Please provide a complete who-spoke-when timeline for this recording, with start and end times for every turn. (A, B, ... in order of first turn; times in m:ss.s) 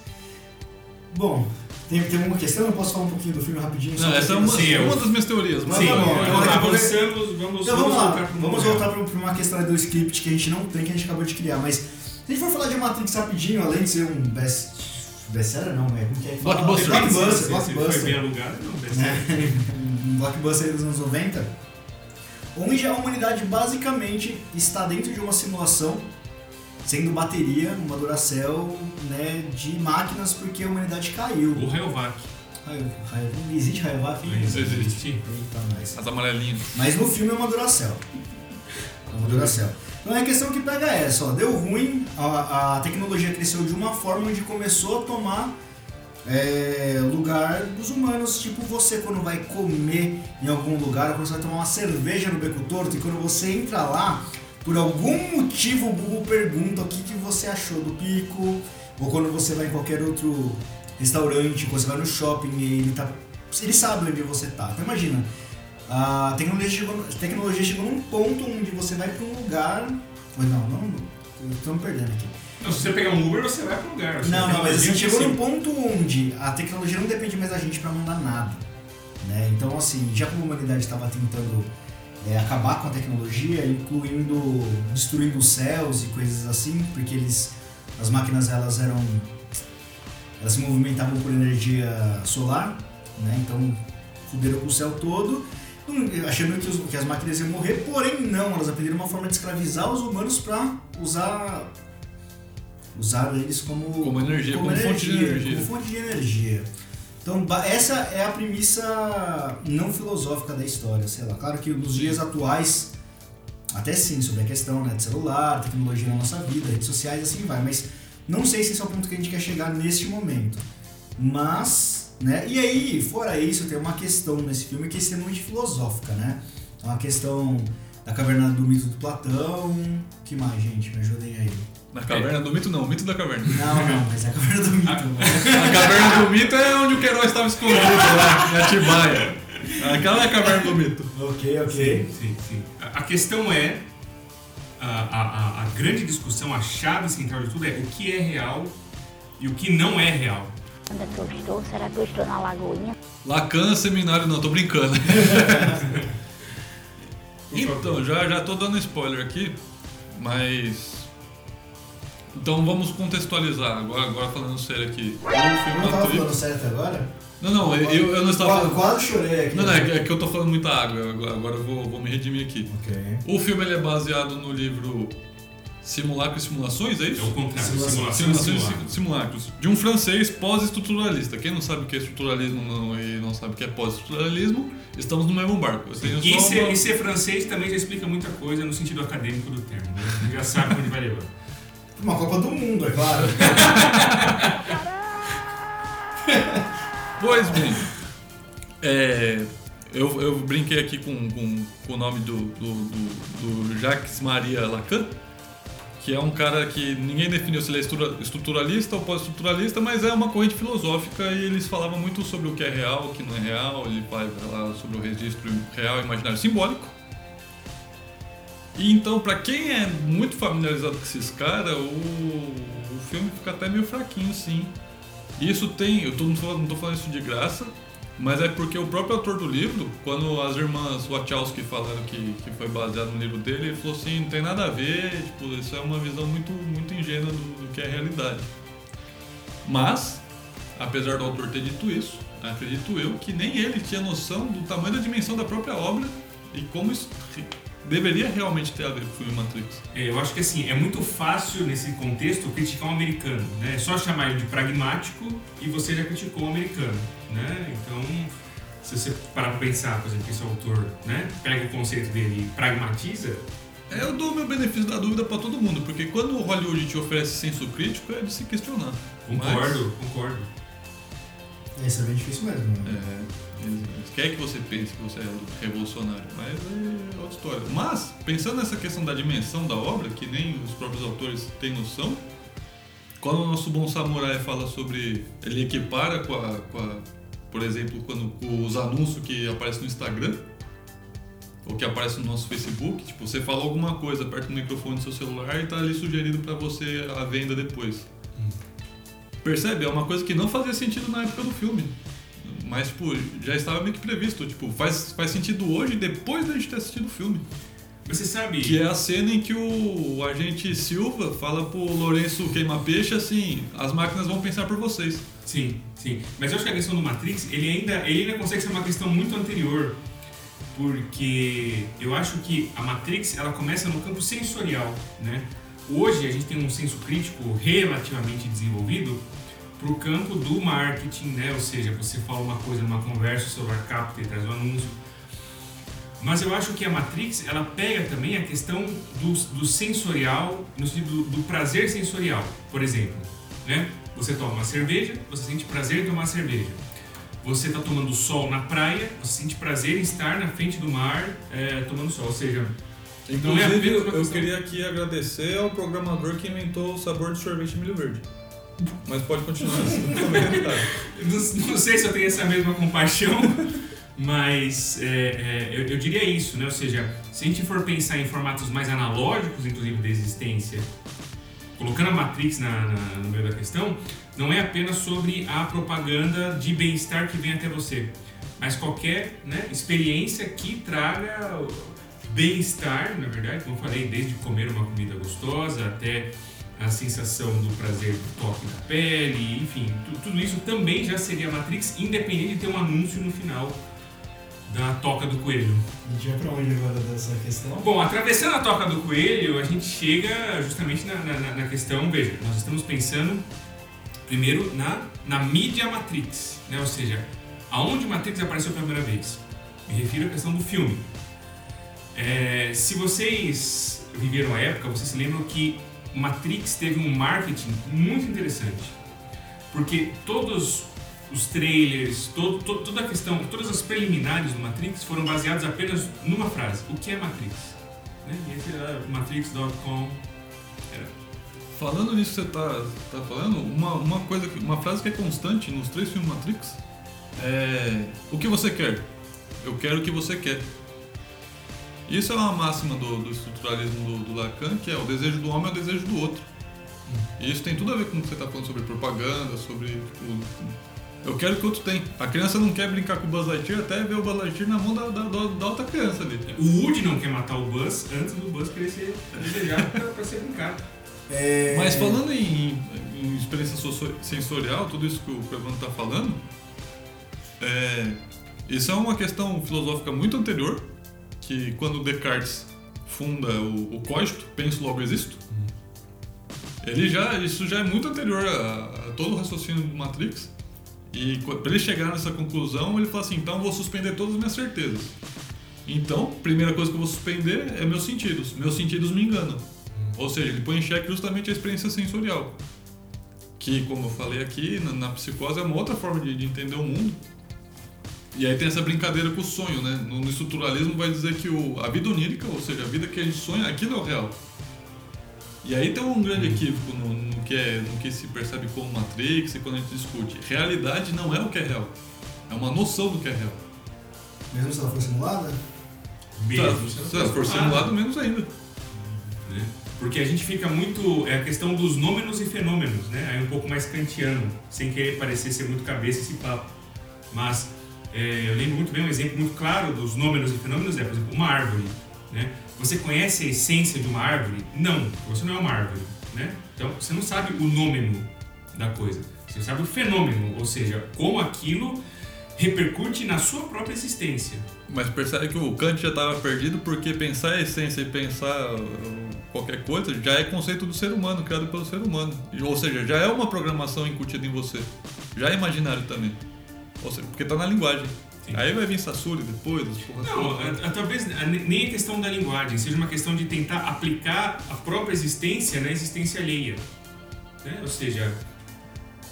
0:01.1-0:05.0 A
0:04.0-0:06.7 B
0:04.5-0:05.0 C
0:05.6-0:07.0 A
0:05.7-0:08.9 C
0:07.6-0:18.2 A
0:16.4-0:17.2 B
0:16.7-0:19.6 C
0:18.9-0:21.5 A
0:22.5-0:26.1 A
0:26.8-0:31.7 A
0:31.5-0:32.3 C
0:32.6-0:36.0 A
0:34.2-0:35.2 C
0:34.5-0:35.0 B
0:35.9-0:36.7 B
0:36.7-0:38.0 A
0:39.1-0:45.6 A
0:39.2-0:39.5 C
0:46.2-1:05.3 A
1:05.9-1:12.3 A
1:12.6-1:15.4 C
1:14.2-1:18.6 A
1:19.2-1:29.4 A
1:30.4-1:41.7 A
1:42.9-1:46.7 A
1:44.0-1:45.7 B
1:47.2-1:52.9 A
1:53.7-2:11.7 A
2:11.9-2:13.8 B
2:13.5-2:16.4 A
2:14.8-2:15.4 C
2:15.4-2:21.1 B
2:17.8-2:18.7 A
2:19.8-2:20.5 A
2:21.1-2:22.0 A
2:21.7-2:23.8 C
2:24.8-2:28.7 C
2:29.4-2:30.5 C
2:30.9-2:33.0 D
2:33.2-2:35.9 B
2:35.8-2:36.0 C
2:37.5-2:38.0 C
2:37.5-2:39.5 B
2:40.1-2:41.1 B
2:42.3-2:46.3 B
2:45.5-2:49.9 A
2:47.4-2:48.8 B
2:49.5-2:52.7 B
2:52.6-2:53.2 A
2:53.2-2:55.1 B
2:55.8-2:57.3 B
2:57.2-2:59.0 C
2:57.6-2:58.3 A
2:58.1-3:06.8 B
3:06.0-3:11.3 C
3:12.0-3:13.8 A
3:13.4-3:14.5 C
3:13.8-3:14.2 B
3:16.2-3:16.6 A
3:17.2-3:17.9 B
3:18.8-3:25.1 B
3:26.0-3:36.9 B
3:38.7-3:44.7 B
3:45.4-3:58.5 B
3:59.6-4:00.2 B
4:00.8-4:09.8 B
4:09.9-4:23.4 C
4:23.9-4:29.8 B
4:29.2-4:30.5 C
4:31.7-4:33.0 A
4:32.8-4:42.2 B
4:43.2-4:50.4 B
4:51.6-4:58.0 B
4:59.4-5:07.4 B
5:08.0-5:08.8 C
5:08.6-5:15.2 B
5:15.4-5:20.0 C
5:20.7-5:29.2 C
5:29.8-5:35.0 C
5:36.2-5:46.8 C
5:47.4-5:52.7 C
5:53.3-5:58.2 B
5:53.4-5:54.5 C
5:59.0-6:00.9 B
6:00.2-6:10.9 C
6:11.8-6:33.8 C
6:34.7-6:35.8 C
6:36.0-6:37.9 A
6:37.8-6:43.4 C
6:44.2-6:51.1 C
6:52.1-6:59.0 C
6:59.7-7:10.2 C
7:11.8-7:16.8 B
7:17.4-7:19.0 B
7:19.6-7:20.6 B
7:22.1-7:26.4 B
7:27.4-7:36.4 B
7:36.5-7:40.8 C
7:41.3-7:42.2 A
7:41.7-7:46.4 B
7:47.6-7:50.8 B
7:51.4-7:55.4 B
7:56.8-8:00.5 B
8:01.1-8:05.1 B
8:05.8-8:09.6 B
8:10.1-8:12.5 B
8:13.6-8:17.2 B
8:18.3-8:24.3 B
8:25.6-8:31.9 B
8:26.3-8:26.6 C
8:32.5-8:33.6 B
8:34.5-8:35.6 A
8:36.4-8:37.9 C
8:36.5-8:38.5 B
8:39.4-8:46.7 C
8:47.3-9:02.0 C
9:02.6-9:04.7 C
9:04.9-9:16.4 B
9:17.0-9:20.8 B
9:20.2-9:26.8 C
9:27.6-9:28.4 C